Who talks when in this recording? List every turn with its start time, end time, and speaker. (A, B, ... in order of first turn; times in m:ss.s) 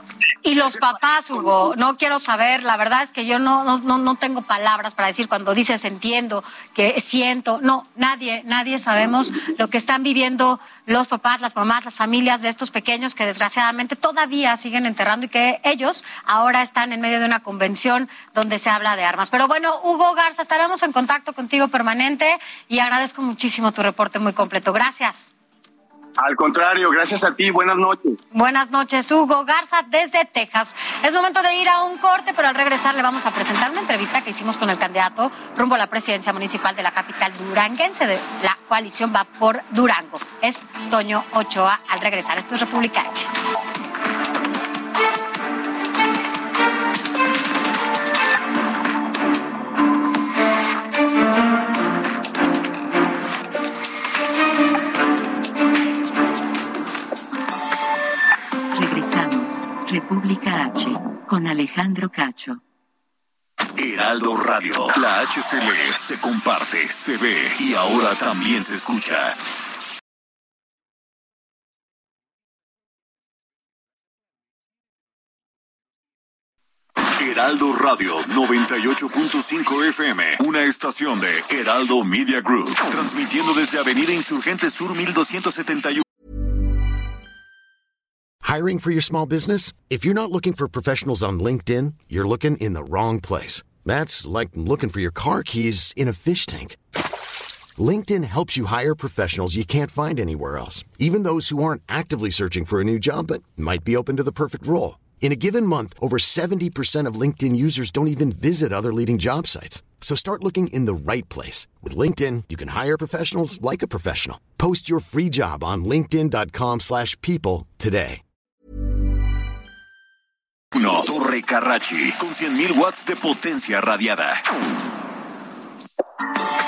0:00.4-0:25.3 A
0:26.2-0:28.2 B
0:28.3-0:43.3 A
0:58.7-1:02.6 C
1:03.8-1:09.4 D
1:17.2-1:26.0 D
1:28.4-1:36.8 E
1:37.8-1:58.2 E
2:00.7-2:04.4 D